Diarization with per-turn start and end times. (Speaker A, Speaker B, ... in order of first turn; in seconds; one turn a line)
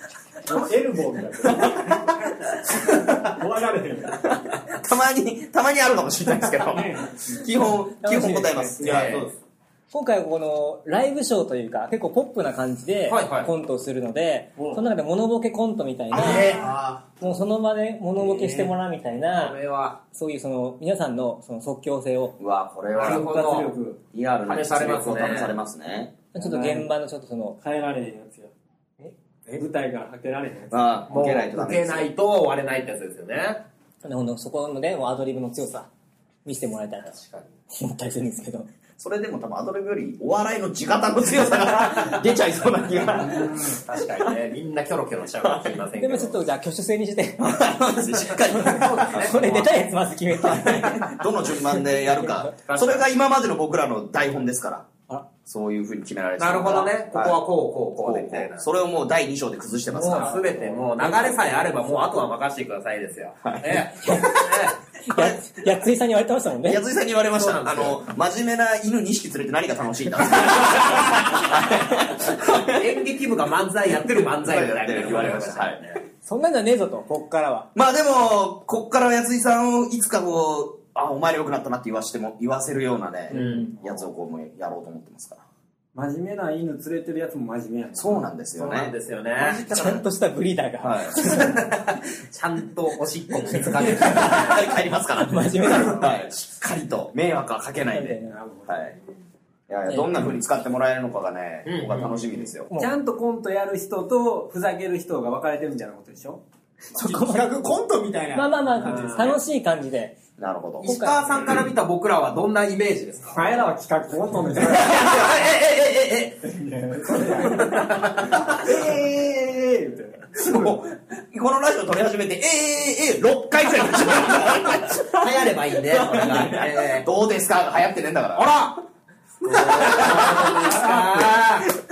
Speaker A: 0.5-4.2
Speaker B: 1.4-1.9
Speaker B: 4.3-9.2
Speaker A: 6.7-7.4
Speaker C: 8.0-8.8
Speaker D: 8.8-9.4
Speaker E: 8.8-9.3
Speaker C: 9.9-16.6
Speaker E: 13.1-13.5
Speaker B: 16.1-17.1
Speaker E: 16.1-16.8
Speaker C: 17.2-19.6
Speaker E: 18.2-18.7
Speaker E: 19.4-20.0
Speaker C: 20.1-22.4
Speaker B: 22.4-23.3
Speaker A: 22.9-24.0
Speaker E: 23.0-23.7
Speaker B: 24.1-26.1
Speaker E: 24.4-25.6
Speaker C: 26.3-27.6
Speaker A: 26.4-26.9
Speaker A: 27.6-28.5
Speaker A: 29.5-30.8
Speaker B: 30.7-32.1
Speaker E: 31.1-33.6
Speaker C: 34.0-35.9
Speaker C: 36.5-37.2
Speaker E: 37.1-37.5
Speaker C: 37.7-38.7
Speaker B: 39.0-43.8
Speaker E: 43.2-46.4
Speaker B: 45.4-45.8
Speaker C: 46.0-52.5
Speaker B: 47.4-49.6
Speaker E: 48.5-49.6
Speaker B: 50.3-54.9
Speaker E: 52.7-53.0
Speaker B: 55.5-57.4
Speaker E: 56.4-58.7
Speaker B: 58.0-61.4
Speaker C: 59.9-60.8
Speaker E: 60.1-64.8
Speaker B: 63.4-64.5
Speaker C: 65.1-66.8
Speaker B: 65.1-65.4
Speaker B: 66.7-72.8
Speaker E: 67.4-68.0
Speaker E: 72.3-76.0
Speaker B: 74.4-76.0
Speaker C: 76.2-77.7
Speaker B: 77.8-85.4
Speaker E: 83.3-83.7
Speaker A: 83.5-83.7
Speaker A: 86.0-88.3
Speaker B: 88.0-90.0
Speaker E: 88.5-89.6
Speaker C: 89.4-91.7
Speaker B: 90.8-91.2
Speaker E: 91.2-94.7
Speaker C: 93.5-96.2
Speaker B: 93.9-99.0
Speaker C: 97.9-98.3
Speaker A: 98.3-99.0
Speaker B: 99.7-102.7
Speaker C: 99.9-100.4
Speaker E: 101.7-102.5
Speaker A: 102.8-106.4
Speaker C: 106.9-107.5
Speaker D: 107.0-109.4
Speaker C: 108.3-110.2
Speaker A: 108.9-109.2
Speaker B: 110.4-110.9
Speaker E: 110.8-113.6
Speaker C: 110.8-111.2
Speaker A: 113.3-115.1
Speaker E: 114.6-116.4
Speaker A: 116.4-120.8
Speaker E: 117.5-118.4
Speaker B: 118.6-119.1
Speaker B: 120.4-128.5
Speaker E: 125.1-127.1
Speaker E: 128.3-128.8
Speaker E: 129.4-131.7
Speaker B: 129.5-130.7
Speaker A: 129.8-131.4